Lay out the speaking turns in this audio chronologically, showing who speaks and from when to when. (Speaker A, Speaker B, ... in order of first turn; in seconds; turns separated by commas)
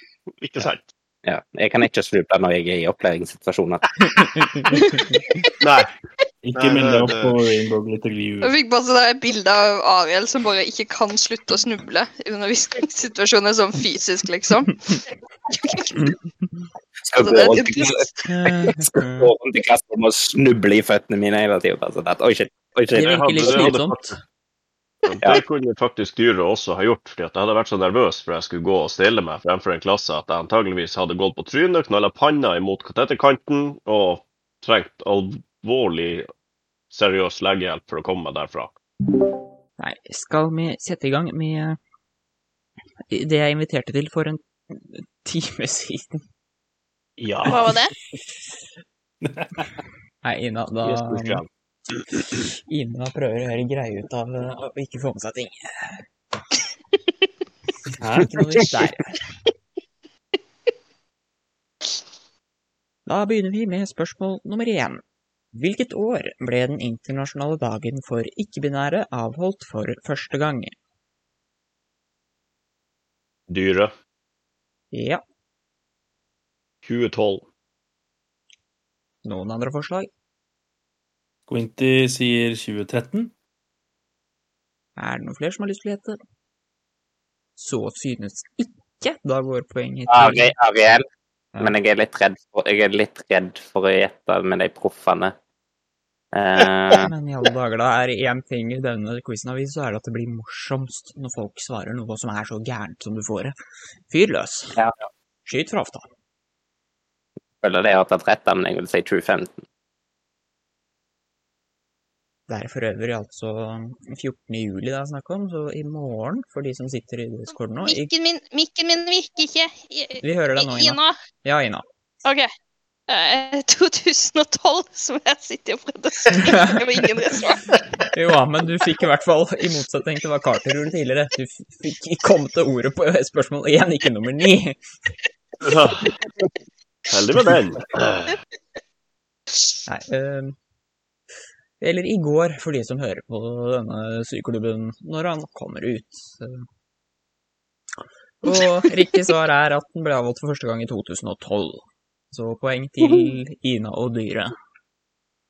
Speaker A: 0.4-0.9, Speaker B: 1.2-3.8, Speaker C: 4.1-5.2, Speaker A: 5.6-5.9, Speaker D: 6.4-8.5, Speaker A: 6.5-7.4, Speaker E: 8.4-14.7, Speaker C: 14.7-15.0, Speaker E: 15.5-16.1, Speaker C: 16.0-16.5, Speaker B: 17.0-23.8, Speaker E: 17.1-18.1, Speaker C: 18.2-19.3, Speaker C: 22.9-24.1, Speaker A: 22.9-24.1, Speaker A: 25.1-36.3, Speaker A: 36.9-38.7, Speaker C: 39.8-41.8, Speaker C: 43.1-46.2, Speaker A: 47.2-47.7, Speaker E: 47.5-47.9, Speaker D: 49.2-49.7, Speaker C: 50.2-51.4, Speaker A: 50.8-51.5, Speaker C: 52.1-56.0, Speaker D: 58.0-58.3, Speaker C: 58.0-59.2, Speaker C: 63.0-65.0, Speaker C: 65.5-70.7, Speaker A: 73.5-73.9, Speaker C: 74.9-75.2, Speaker A: 76.8-77.5, Speaker C: 79.2-80.1, Speaker D: 81.5-83.3, Speaker C: 85.0-86.2, Speaker C: 87.6-90.5, Speaker B: 90.1-91.0, Speaker B: 91.6-95.3, Speaker B: 96.3-97.1, Speaker C: 96.9-103.5, Speaker C: 104.1-104.8, Speaker C: 105.5-106.1, Speaker B: 107.6-109.6, Speaker C: 112.5-118.1, Speaker E: 117.8-121.2, Speaker C: 120.2-121.8, Speaker E: 123.1-127.7, Speaker C: 126.3-127.1, Speaker C: 128.1-134.8, Speaker A: 135.6-136.1, Speaker A: 137.1-138.4, Speaker C: 139.9-140.6, Speaker C: 141.8-146.6, Speaker C: 148.4-154.5